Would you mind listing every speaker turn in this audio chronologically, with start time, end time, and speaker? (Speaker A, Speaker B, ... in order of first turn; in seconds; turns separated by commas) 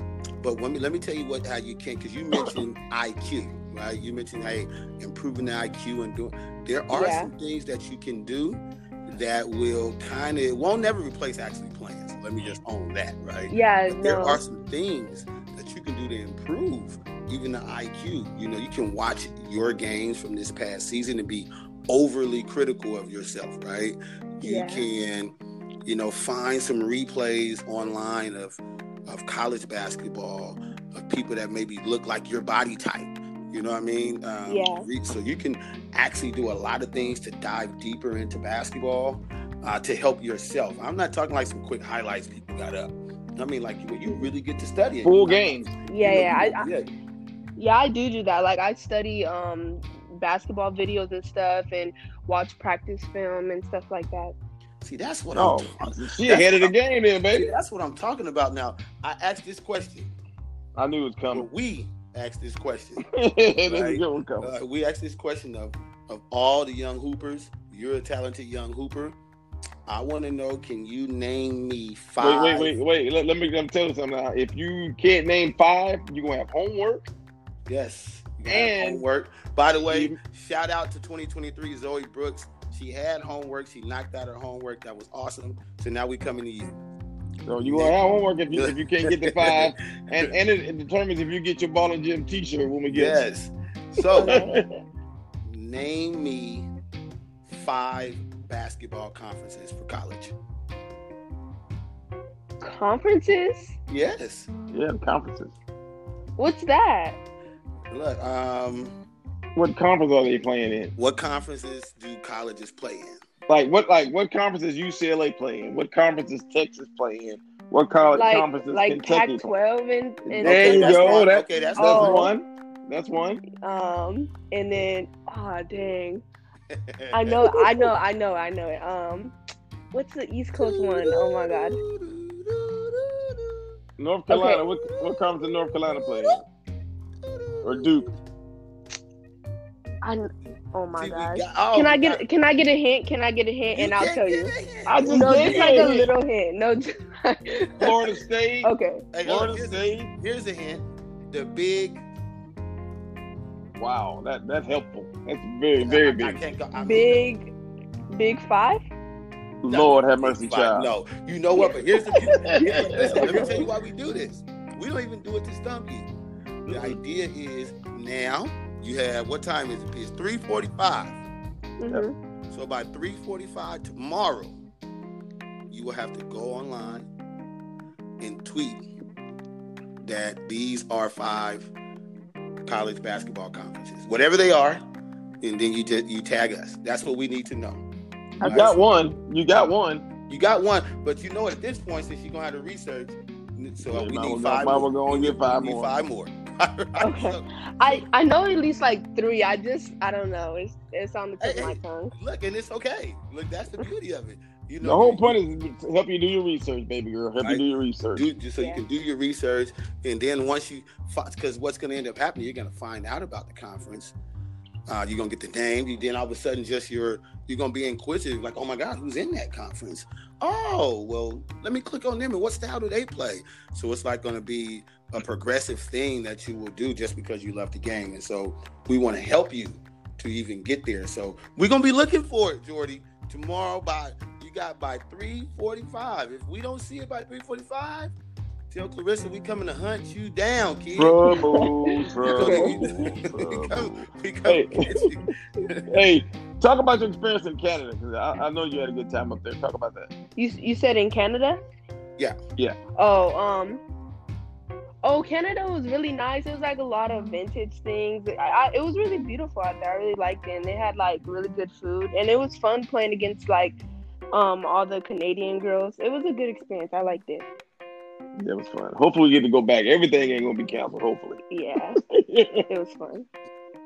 Speaker A: 0.4-25.3, Speaker B: 6.9-7.3, Speaker B: 13.5-14.4, Speaker B: 24.4-24.9, Speaker A: 25.8-46.9, Speaker B: 34.5-34.9, Speaker C: 45.0-45.8, Speaker B: 45.9-46.6, Speaker B: 47.6-54.3, Speaker A: 54.8-56.7, Speaker C: 55.3-57.5, Speaker A: 57.3-60.1, Speaker C: 60.8-61.5, Speaker A: 61.3-63.0, Speaker C: 63.1-64.5, Speaker A: 63.6-69.2, Speaker A: 69.9-72.8, Speaker C: 72.2-77.1, Speaker A: 77.7-86.7, Speaker C: 78.4-79.0, Speaker C: 79.8-80.2, Speaker C: 87.5-93.2, Speaker A: 87.6-88.0, Speaker A: 88.5-90.2, Speaker A: 92.9-94.4, Speaker C: 94.0-94.6, Speaker B: 94.2-94.6, Speaker A: 95.5-96.7, Speaker A: 97.5-100.3, Speaker B: 102.6-103.8, Speaker A: 103.9-104.5, Speaker C: 104.7-105.5, Speaker B: 106.4-107.2, Speaker A: 107.9-108.9, Speaker C: 109.6-110.9, Speaker A: 111.0-113.2, Speaker C: 113.5-119.5, Speaker B: 118.1-122.3, Speaker C: 120.2-123.4, Speaker A: 120.4-122.3, Speaker B: 123.6-126.2, Speaker A: 126.7-127.5, Speaker B: 127.1-129.3, Speaker B: 129.9-131.8, Speaker A: 130.6-133.7, Speaker C: 134.0-136.4, Speaker B: 134.3-134.6, Speaker A: 134.7-136.4, Speaker A: 137.2-138.2, Speaker C: 137.6-138.1, Speaker B: 140.0-144.5, Speaker A: 141.0-142.2, Speaker A: 143.7-146.0, Speaker C: 144.8-146.1, Speaker B: 145.1-148.0, Speaker C: 147.8-148.7, Speaker B: 148.6-149.1, Speaker A: 149.1-152.0, Speaker C: 149.2-150.1, Speaker C: 153.8-156.4, Speaker A: 155.8-157.3, Speaker B: 156.8-157.5, Speaker B: 158.1-158.8, Speaker C: 159.6-160.9, Speaker A: 159.7-166.1, Speaker C: 162.3-163.6, Speaker B: 162.6-163.6, Speaker C: 166.7-167.0, Speaker A: 166.7-171.2, Speaker B: 171.8-172.1, Speaker A: 172.5-174.6, Speaker A: 175.7-177.1, Speaker A: 178.2-178.9, Speaker A: 180.0-181.7, Speaker A: 182.6-184.8, Speaker A: 185.4-187.8, Speaker C: 188.4-190.1, Speaker B: 188.4-188.7, Speaker A: 188.4-188.8, Speaker A: 190.3-198.0, Speaker C: 193.9-195.9, Speaker B: 197.0-202.1, Speaker A: 201.4-205.4, Speaker C: 204.8-208.3, Speaker A: 207.4-214.1, Speaker B: 208.6-208.8, Speaker A: 214.9-238.1, Speaker A: 238.7-241.2, Speaker C: 240.9-245.0, Speaker B: 241.3-241.7, Speaker A: 242.2-245.9, Speaker B: 242.3-242.7, Speaker C: 245.9-250.1, Speaker B: 250.3-251.6, Speaker B: 253.0-253.8, Speaker B: 255.0-263.8, Speaker B: 264.3-267.4, Speaker C: 268.4-271.4, Speaker B: 271.5-272.0, Speaker C: 272.2-272.6, Speaker B: 272.7-273.3